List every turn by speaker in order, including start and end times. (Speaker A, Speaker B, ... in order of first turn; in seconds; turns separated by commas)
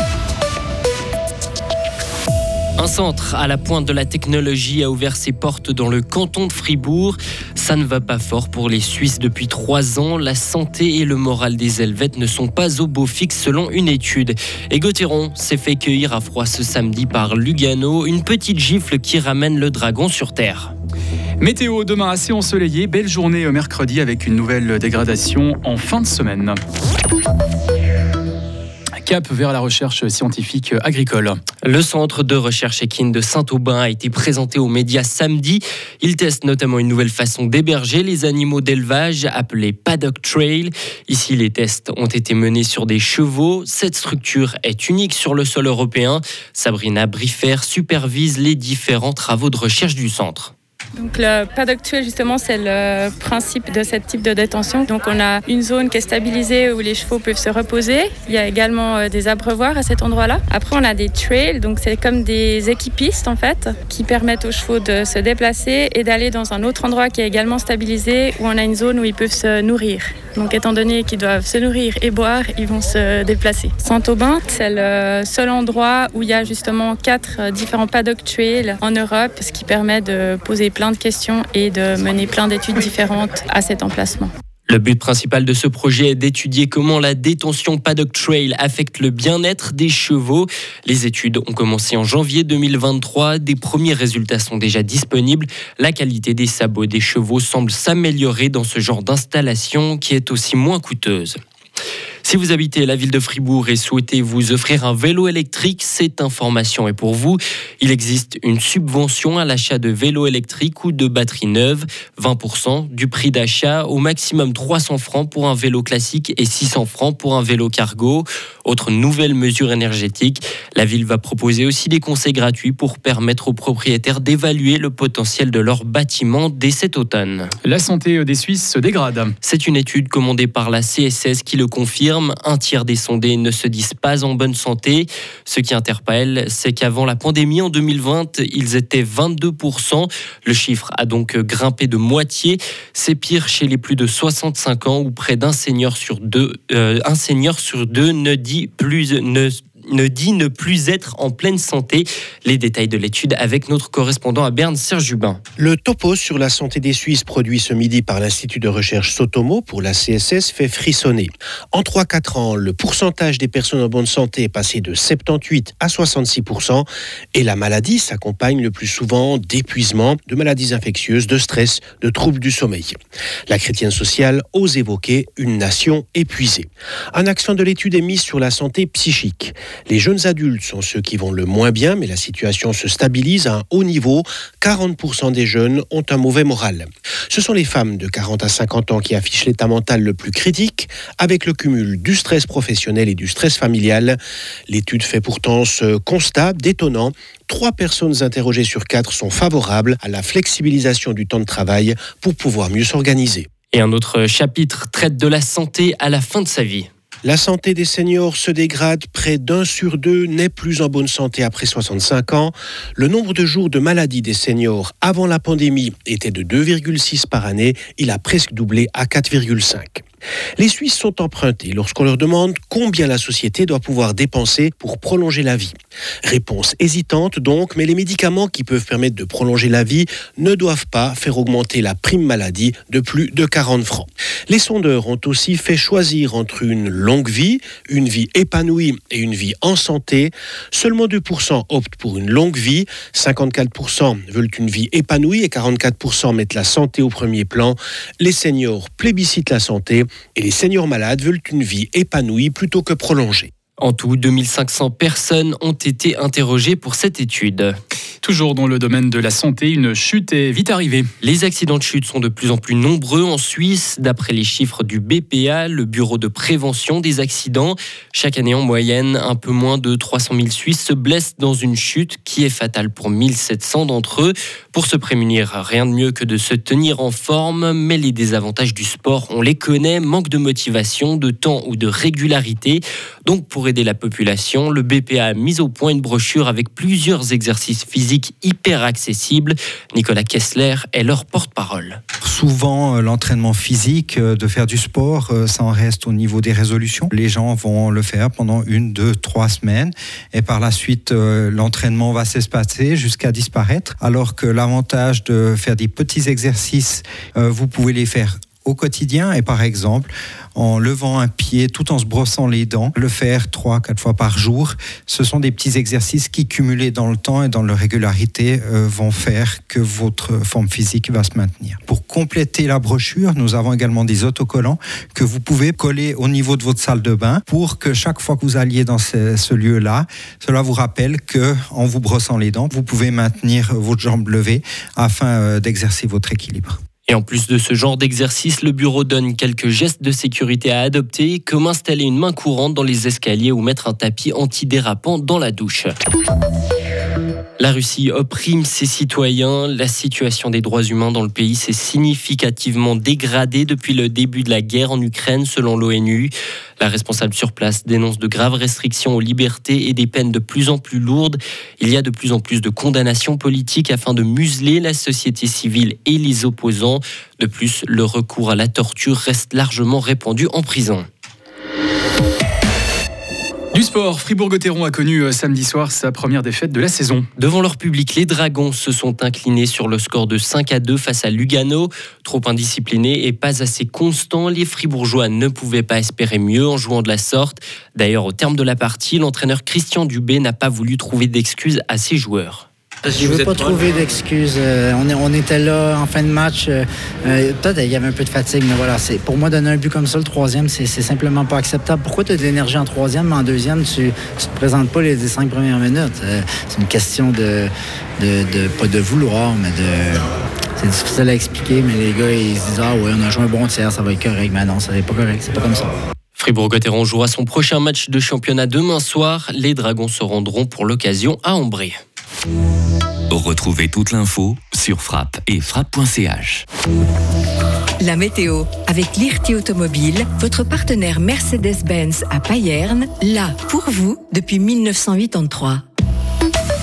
Speaker A: 2.8-20.7, Speaker B: 21.4-26.6, Speaker B: 29.0-31.4, Speaker A: 31.6-50.5, Speaker C: 51.0-84.3, Speaker A: 84.7-101.4, Speaker A: 102.2-127.5, Speaker B: 127.6-129.3, Speaker A: 129.4-155.4, Speaker D: 155.6-172.9, Speaker D: 173.5-194.2, Speaker D: 194.7-203.5, Speaker A: 203.7-206.9, Speaker D: 207.2-220.0, Speaker D: 220.6-253.5, Speaker A: 253.8-257.7, Speaker B: 258.2-261.1, Speaker A: 261.2-292.0, Speaker E: 292.2-336.8, Speaker A: 337.1-345.9, Speaker A: 347.6-371.1, Speaker B: 373.7-377.2, Speaker A: 377.4-392.7, Speaker F: 393.1-410.2, Speaker F: 410.8-415.9, Speaker A: 416.4-422.0, Speaker G: 423.3-426.6, Speaker H: 428.0-435.8